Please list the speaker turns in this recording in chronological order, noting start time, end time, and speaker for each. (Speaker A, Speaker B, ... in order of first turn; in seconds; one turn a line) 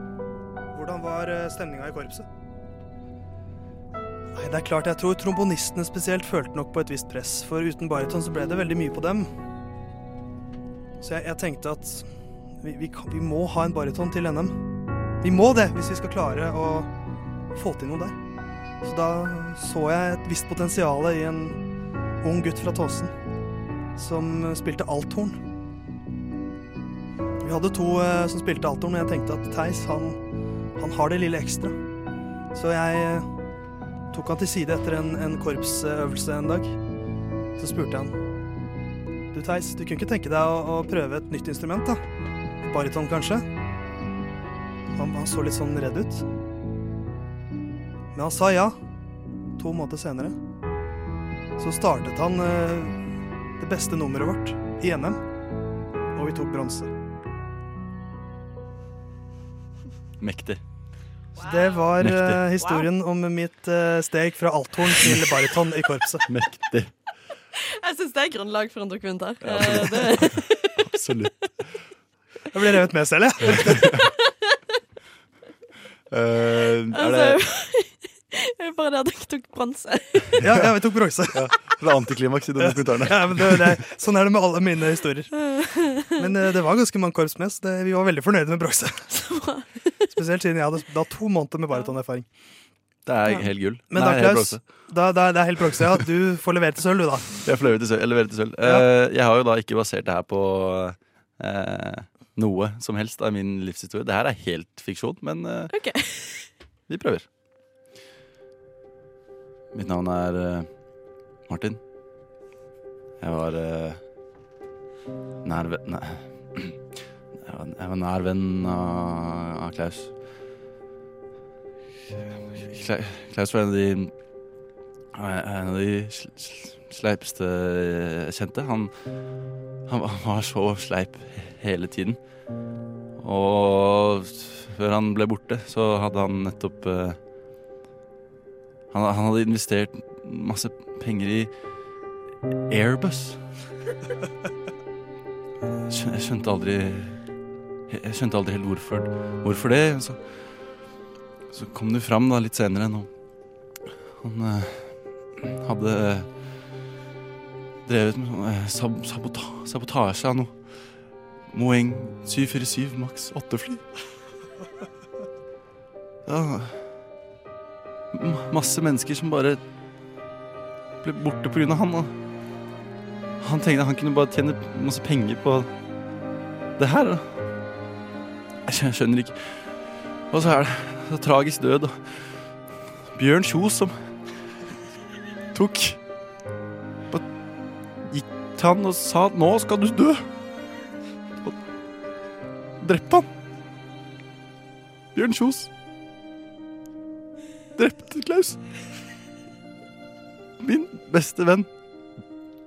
Speaker A: 0.7-2.2
Speaker A: 4.3-9.3
Speaker A: 11.0-12.1
Speaker A: 12.6-14.6
Speaker A: 15.2-16.9
Speaker A: 17.5-18.2
Speaker A: 18.8-21.6
Speaker A: 22.2-23.1
Speaker A: 23.9-25.4
Speaker A: 27.4-30.2
Speaker A: 30.8-31.8
Speaker A: 32.5-33.2
Speaker A: 34.1-36.7
Speaker A: 37.6-38.1
Speaker A: 39.3-42.0
Speaker A: 42.6-43.5
Speaker A: 44.9-46.2
Speaker A: 48.1-48.8
Speaker A: 49.6-50.4
Speaker A: 51.6-55.2
Speaker A: 56.1-56.9
Speaker B: 60.2-60.6
Speaker C: 61.4-62.0
Speaker A: 61.4-66.2
Speaker B: 62.0-62.5
Speaker C: 62.6-62.9
Speaker B: 66.3-66.9
Speaker C: 67.6-70.8
Speaker B: 69.4-71.3
Speaker A: 72.5-74.0
Speaker B: 73.4-74.0
Speaker B: 76.1-77.4
Speaker C: 76.9-80.3
Speaker A: 80.4-81.5
Speaker B: 81.3-83.7
Speaker A: 82.6-85.3
Speaker C: 85.3-86.2
Speaker A: 86.1-89.1
Speaker C: 89.1-89.6
Speaker A: 90.1-92.3
Speaker B: 93.0-94.6
Speaker A: 93.9-97.3
Speaker B: 97.4-105.7
Speaker C: 105.7-106.5
Speaker B: 106.9-107.2
Speaker B: 109.7-110.7
Speaker B: 111.5-111.8
Speaker B: 113.2-114.0
Speaker B: 115.4-116.8
Speaker B: 117.3-120.1
Speaker B: 122.3-124.1
Speaker B: 125.1-128.9
Speaker B: 129.9-132.2
Speaker B: 133.2-137.2
Speaker B: 138.9-141.5
Speaker B: 142.7-143.4
Speaker B: 145.9-147.2
Speaker B: 147.9-150.2
Speaker B: 151.5-153.1
Speaker B: 154.2-156.3
Speaker B: 157.8-160.5
Speaker B: 161.5-163.8
Speaker B: 166.2-166.8
Speaker B: 168.1-169.6
Speaker B: 171.0-172.1
Speaker B: 173.4-175.7
Speaker B: 176.8-177.3
Speaker B: 178.7-179.7
Speaker B: 180.3-182.2
Speaker B: 183.1-184.0
Speaker B: 185.5-186.0
Speaker B: 188.1-190.2
Speaker B: 192.8-193.3
Speaker B: 195.1-195.7
Speaker B: 197.8-198.6
Speaker B: 200.6-201.7